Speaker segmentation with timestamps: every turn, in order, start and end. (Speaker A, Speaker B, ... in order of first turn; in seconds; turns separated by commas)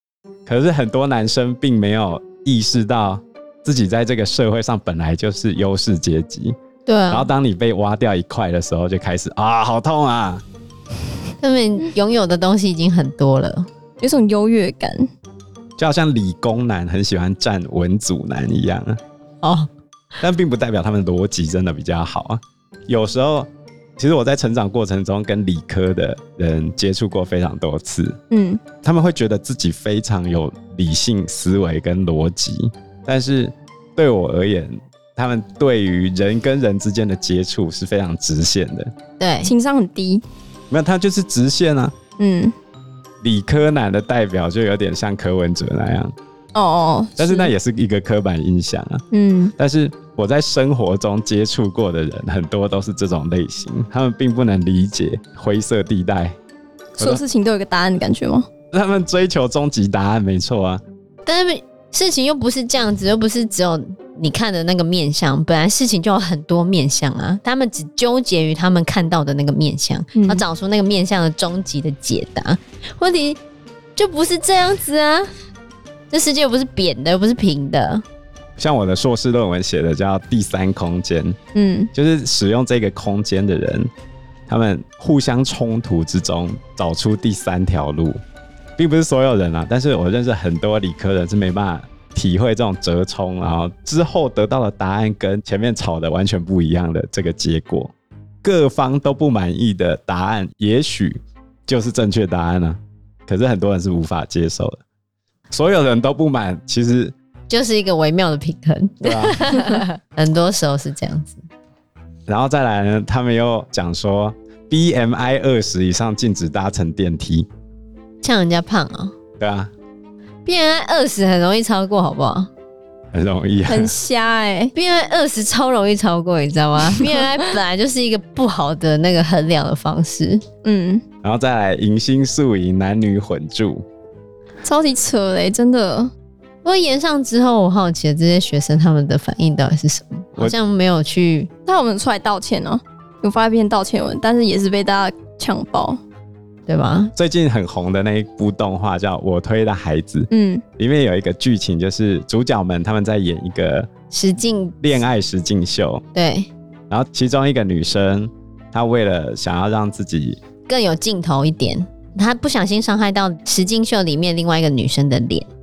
Speaker A: 0.5-6.5, Speaker B: 6.8-7.3, Speaker A: 7.1-10.4, Speaker B: 11.4-13.7, Speaker C: 14.0-15.1, Speaker A: 15.8-19.0, Speaker B: 19.4-19.7, Speaker A: 20.2-28.2, Speaker C: 28.3-28.6, Speaker A: 28.8-38.9, Speaker B: 39.2-39.5, Speaker C: 39.4-40.2, Speaker A: 40.7-41.9, Speaker C: 42.2-42.5, Speaker A: 43.2-46.1, Speaker C: 46.5-47.5, Speaker A: 47.2-49.0, Speaker C: 49.1-49.5, Speaker A: 49.6-56.4, Speaker C: 57.0-58.5, Speaker A: 58.7-60.8, Speaker B: 61.2-73.4, Speaker C: 70.1-70.4, Speaker B: 74.0-75.3, Speaker B: 76.1-78.0, Speaker A: 78.6-81.4, Speaker C: 81.5-81.9, Speaker A: 81.9-83.9, Speaker A: 84.5-88.2, Speaker A: 88.8-97.9, Speaker A: 98.4-104.8, Speaker A: 105.5-107.1, Speaker B: 107.5-111.4, Speaker A: 109.0-109.4, Speaker A: 112.3-117.5, Speaker B: 118.2-119.1, Speaker A: 119.4-119.7, Speaker B: 120.4-122.5, Speaker A: 123.1-123.9, Speaker C: 123.7-124.7, Speaker B: 124.7-130.4, Speaker C: 130.6-131.0, Speaker A: 131.2-133.8, Speaker C: 134.6-136.1, Speaker B: 136.6-141.5, Speaker C: 141.7-146.0, Speaker B: 146.7-147.1, Speaker A: 147.2-153.9, Speaker C: 150.3-150.6, Speaker B: 154.1-154.9, Speaker A: 154.8-156.0, Speaker B: 156.1-156.5, Speaker A: 156.9-160.4, Speaker B: 160.7-165.5